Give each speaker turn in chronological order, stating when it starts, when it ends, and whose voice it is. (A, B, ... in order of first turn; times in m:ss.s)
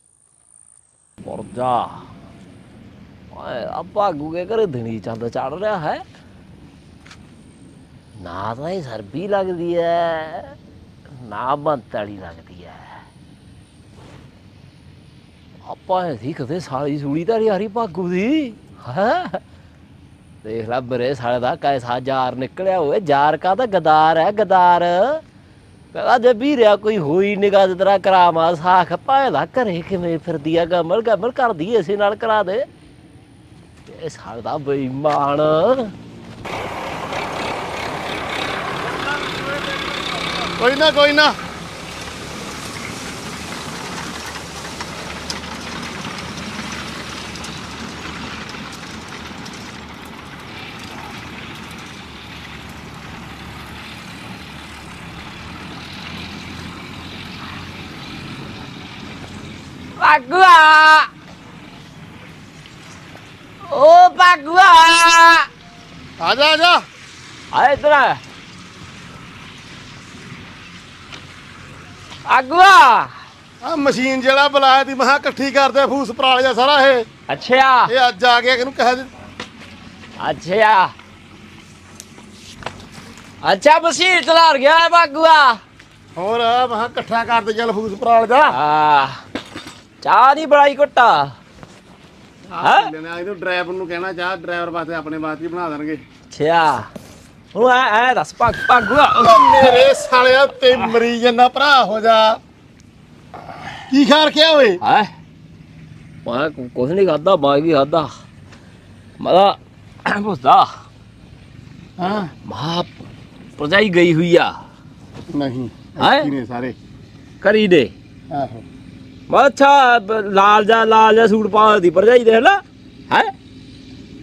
0:01.2-0:02.0 A
0:03.3-0:06.0 A
0:08.2-0:10.5 A
0:11.1-0:12.9 A
0:15.6-0:19.4 A
0:20.4-0:25.2 A
0:25.9-0:32.7 A
0:33.9-0:35.9 A
0:40.6-0:41.4 B
1:00.0-1:01.1 A
1:03.7-1:05.5 A
1:06.2-1:06.8 B
1:07.5-1:08.2 A
1:12.3-1:13.1 A
1:13.6-1:17.1 B
1:17.3-1:17.9 A
1:17.9-1:19.1 B
1:20.2-1:20.9 A
1:23.4-1:25.6 A
1:26.2-1:28.6 B
1:28.5-1:29.2 A
1:30.0-1:31.3 A
1:32.5-1:36.0 B
1:32.6-1:32.9 A
1:36.3-1:36.9 A
1:37.5-1:39.8 A
1:39.2-1:42.4 B
1:43.9-1:44.8 B
1:44.8-1:45.1 A
1:46.2-1:48.1 A
1:49.2-1:50.7 A
1:52.0-1:52.3 B
1:52.4-1:52.9 A
1:53.6-1:54.6 A
1:55.3-1:56.8 B
1:56.0-1:56.3 A
1:57.4-1:57.9 A
1:58.3-1:58.6 B
1:59.3-2:03.3 A